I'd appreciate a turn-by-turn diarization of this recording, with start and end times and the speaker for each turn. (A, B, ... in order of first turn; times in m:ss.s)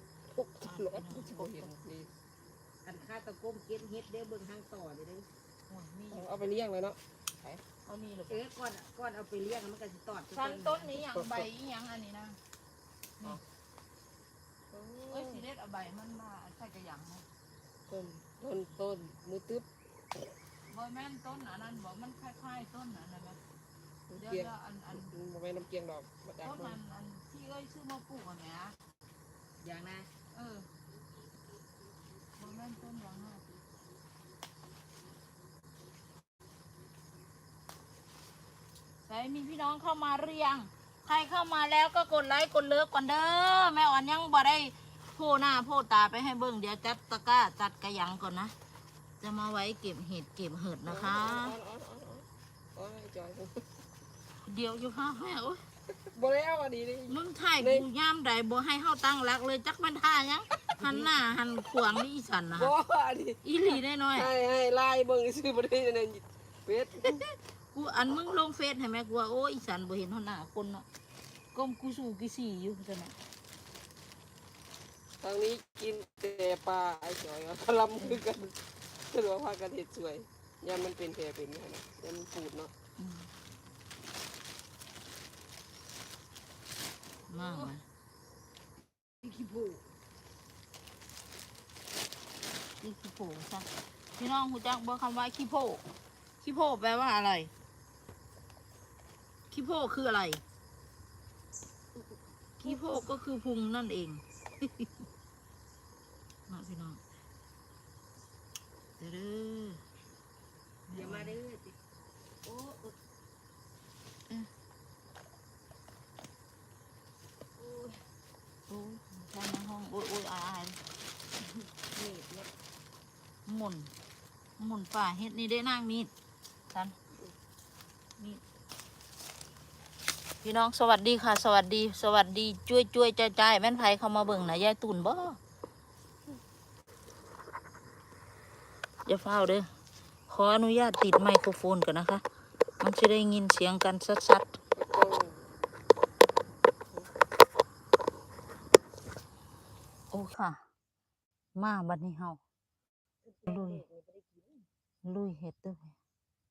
0:00.3-0:02.1 A
0:00.6-0:01.7 B
0:02.8-0:05.3 C
0:05.7-0:06.5 B
0:06.1-0:07.6 A
0:07.8-0:08.4 B
0:08.3-0:11.0 C
0:10.3-0:12.4 B
0:11.0-0:11.5 A
0:14.7-0:15.4 A
0:15.1-0:17.2 B
0:17.9-0:19.7 A
0:20.7-0:23.4 B
0:24.1-0:26.8 A
0:24.1-0:25.1 B
0:26.4-0:28.8 B
0:29.6-0:30.1 C
0:30.3-0:30.7 B
0:32.4-0:33.4 B
0:39.0-0:48.5 B
0:49.2-0:51.6 B
0:50.8-0:53.6 A
0:54.4-0:55.6 B
0:55.9-0:57.9 A
0:57.1-1:02.7 B
1:00.8-1:01.0 A
1:02.6-1:07.2 A
1:03.4-1:04.3 B
1:07.0-1:10.8 B
1:11.5-1:13.1 B
1:15.2-1:22.7 A
1:23.0-1:23.3 B
1:27.3-1:27.8 B
1:27.3-1:27.7 C
1:29.2-1:29.8 C
1:32.8-1:35.8 B
1:36.4-1:37.5 B
1:39.5-1:40.4 B
1:42.6-1:44.9 B
1:42.6-1:43.0 C
1:46.5-1:47.0 B
1:49.0-1:49.8 B
1:50.9-1:51.4 B
1:50.9-1:51.8 C
1:52.4-1:53.0 C
1:57.6-1:58.0 C
1:58.7-2:00.8 B
2:01.9-2:02.5 C
2:03.4-2:03.9 B
2:04.6-2:06.1 B
2:10.4-2:15.4 B
2:19.0-2:19.7 B
2:20.3-2:22.2 B
2:22.8-2:24.5 B
2:24.7-2:25.5 A
2:30.1-2:30.6 B
2:31.6-2:32.4 B
2:33.3-2:34.6 C
2:33.5-2:33.8 B
2:35.0-2:35.9 B